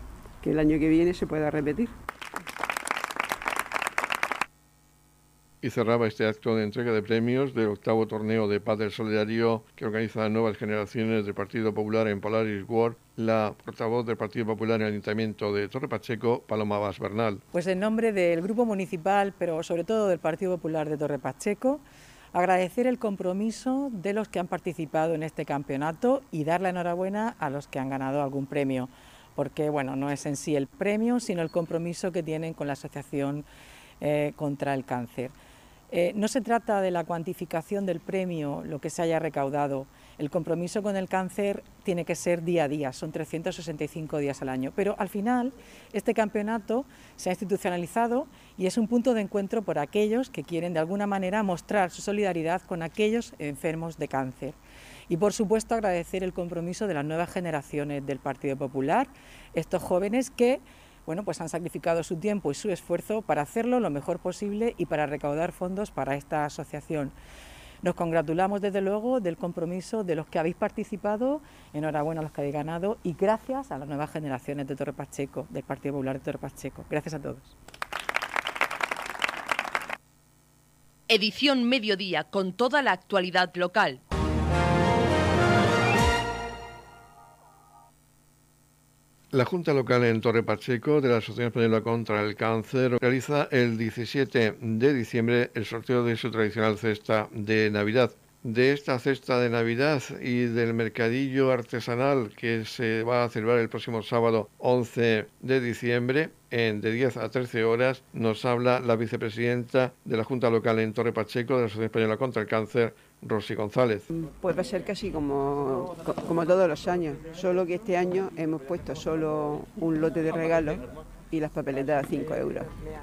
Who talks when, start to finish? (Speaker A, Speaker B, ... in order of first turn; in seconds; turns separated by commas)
Speaker A: 0.4-1.9, Speaker B: 5.6-17.4, Speaker C: 17.5-21.8, Speaker C: 22.3-33.5, Speaker C: 34.0-35.3, Speaker C: 35.9-54.5, Speaker C: 55.1-67.1, Speaker C: 67.8-77.5, Speaker D: 81.1-84.0, Speaker B: 89.3-114.0, Speaker A: 114.1-122.7